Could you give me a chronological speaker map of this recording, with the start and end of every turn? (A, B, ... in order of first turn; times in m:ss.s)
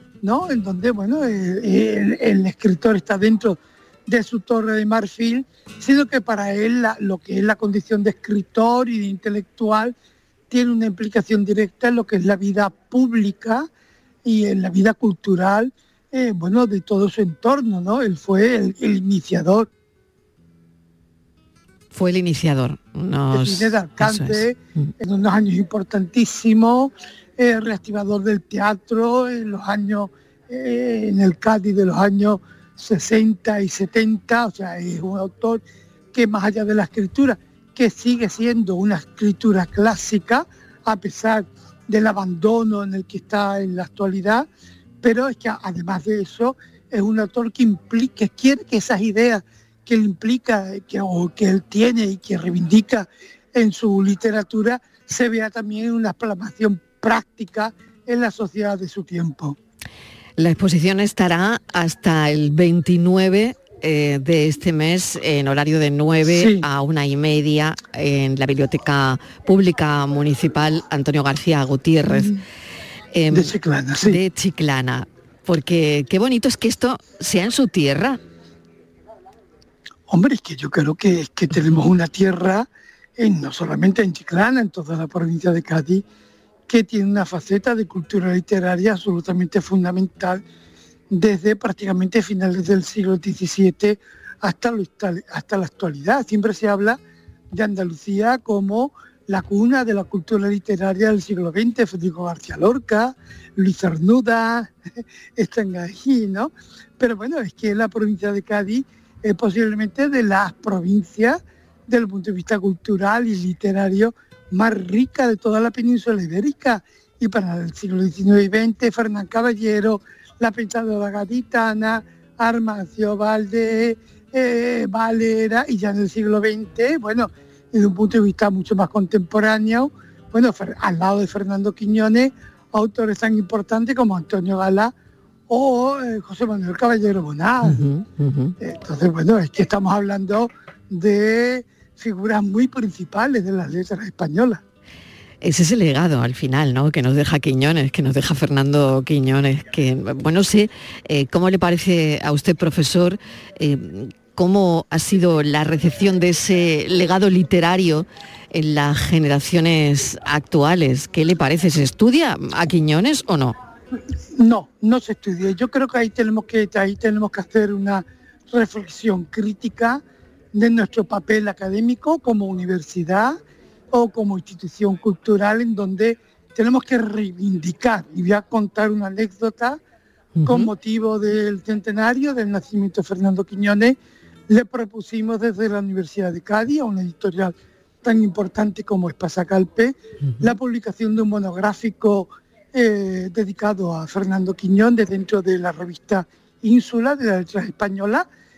0:00.2-0:09.9 A
0:10.5-0:13.7 A
0:14.2-0:19.7 A
0:21.9-0:24.9 B
0:23.3-0:44.5 A
0:45.0-0:59.6 A
1:00.4-1:12.3 B
1:06.2-1:06.6 A
1:12.1-1:12.4 A
1:13.1-1:18.2 B
1:13.3-1:14.2 A
1:20.1-1:26.0 A
1:26.7-1:30.4 A
1:31.1-1:37.0 A
1:37.5-1:44.7 A
1:45.4-2:14.9 A
2:15.5-2:17.8 A
2:17.6-2:18.6 B
2:18.6-2:24.6 A
2:25.4-2:43.6 B
2:44.4-2:50.0 A
2:50.5-2:53.4 A
2:53.9-2:59.8 A
3:00.4-3:00.7 B
3:00.4-3:04.0 A
3:04.5-3:18.2 A